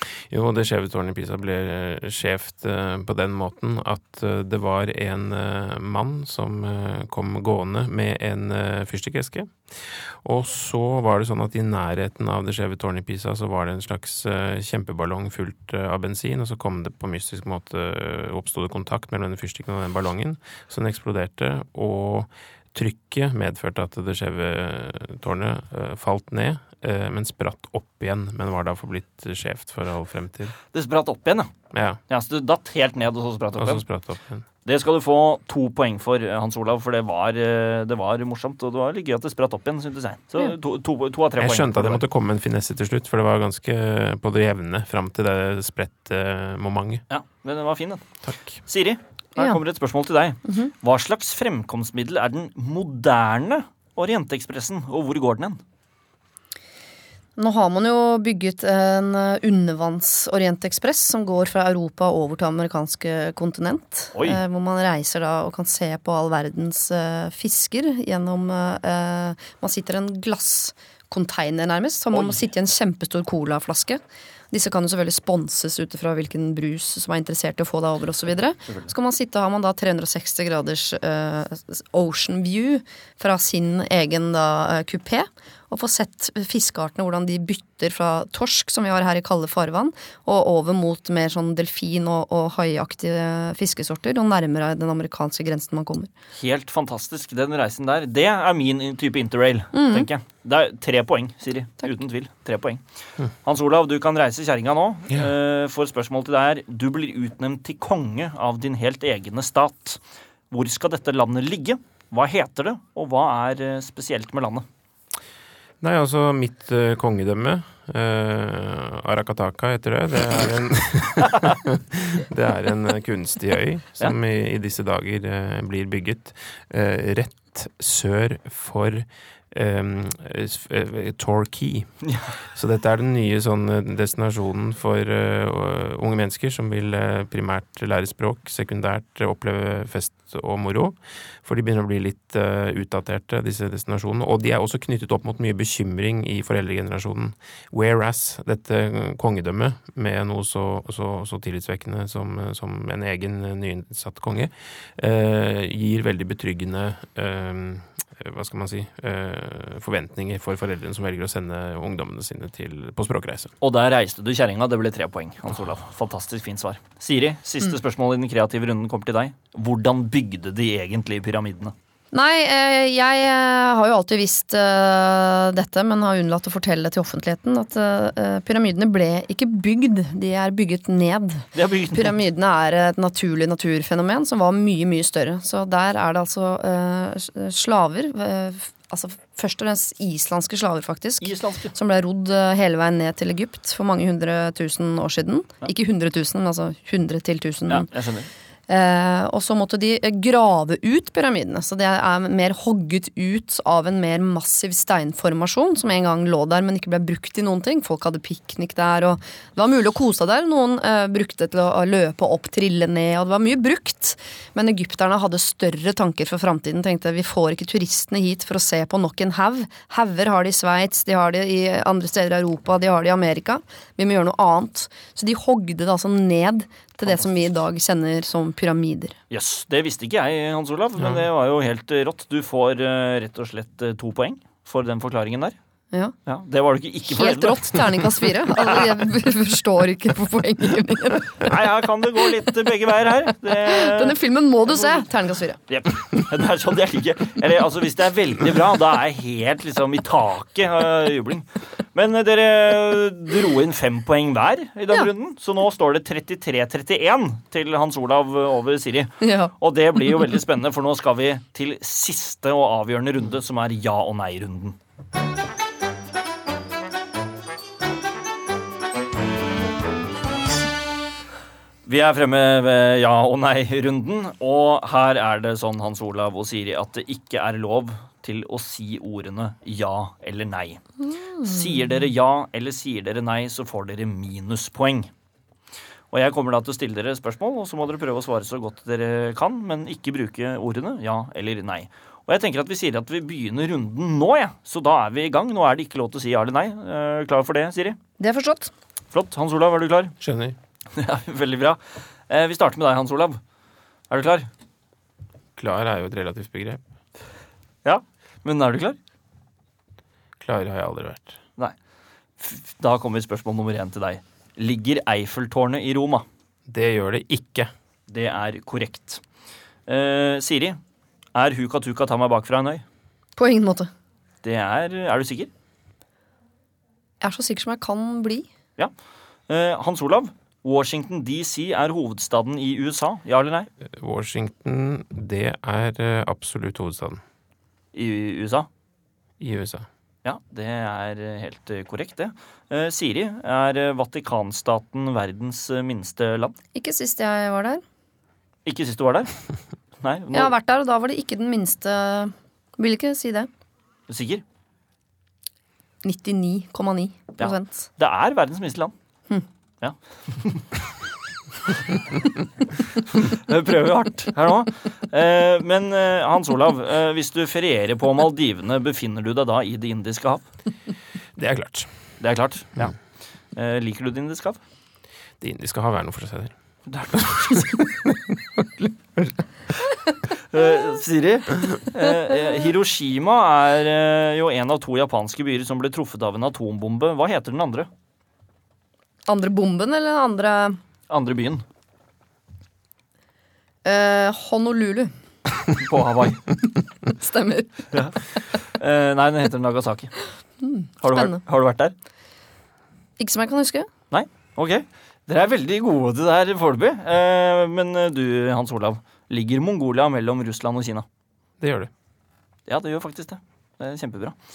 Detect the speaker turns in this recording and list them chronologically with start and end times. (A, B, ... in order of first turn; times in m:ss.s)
0:00.3-0:30.5 A
0:30.7-0:31.5 B
0:31.7-0:32.0 A
0:32.1-0:33.8 B
0:33.6-0:34.4 A
0:34.6-0:42.0 B
0:41.4-0:47.0 A
0:47.1-0:48.0 B
0:48.2-0:48.6 A
0:48.7-0:55.6 B
0:57.4-1:14.0 C
1:12.1-1:12.4 B
1:14.5-1:36.1 C
1:36.4-1:42.8 B
1:39.7-1:40.1 C
1:43.4-1:50.0 B
1:50.5-1:54.6 B
1:55.8-2:11.9 A
2:12.0-2:12.3 B
2:12.5-2:43.5 A
2:43.6-2:51.7 B
2:52.1-3:17.9 C
3:01.5-3:02.2 B
3:11.2-3:11.7 B
3:17.7-3:18.3 B
3:18.7-3:49.1 C
3:49.3-3:55.5 B
3:56.2-3:58.9 B
3:57.0-4:01.4 C
4:01.4-4:04.2 B
4:03.6-4:05.6 C
4:04.8-4:05.0 B
4:05.7-4:24.8 B
4:19.2-4:19.5 C
4:31.8-4:40.8 B
4:41.1-4:41.6 C
4:41.4-4:45.1 B
4:46.1-4:58.0 B
4:58.2-4:58.7 C
4:59.1-5:00.1 B
5:00.2-5:00.6 A
5:01.0-5:01.8 B
5:02.3-5:03.4 B
5:04.1-5:04.5 B
5:05.6-5:06.8 A
5:07.8-5:09.0 B
5:10.4-5:11.4 A
5:12.4-5:16.2 B
5:16.7-5:17.7 A
5:18.1-5:19.2 B
5:19.9-5:20.8 B
5:21.3-5:22.8 B
5:23.4-5:23.9 C
5:24.4-5:25.5 B
5:27.2-5:28.5 C
5:29.5-5:33.7 B
5:33.8-5:37.2 A
5:37.9-5:38.7 B
5:39.4-5:39.9 A
5:40.2-5:46.5 B
5:46.7-5:47.8 C
5:48.6-5:49.3 B
5:50.0-5:50.5 B
5:50.3-5:53.5 C
5:54.1-5:54.4 B
5:56.0-5:57.9 C
5:57.4-5:58.9 B
5:59.8-6:00.6 B
6:03.1-6:10.4 B
6:11.4-6:11.9 A
6:12.2-6:12.9 B
6:13.5-6:14.6 B
6:15.4-6:16.5 A
6:16.9-6:17.8 B
6:17.1-6:19.4 A
6:20.4-6:27.9 B
6:29.3-6:30.8 C
6:31.1-6:31.6 B
6:33.8-6:35.1 C
6:35.8-6:36.4 B
6:37.0-6:37.8 C
6:37.9-6:40.1 B
6:40.6-6:41.4 C
6:41.0-6:41.9 B
6:43.2-6:43.9 C
6:44.1-6:51.0 B
6:51.6-6:51.9 A
6:52.7-6:54.3 B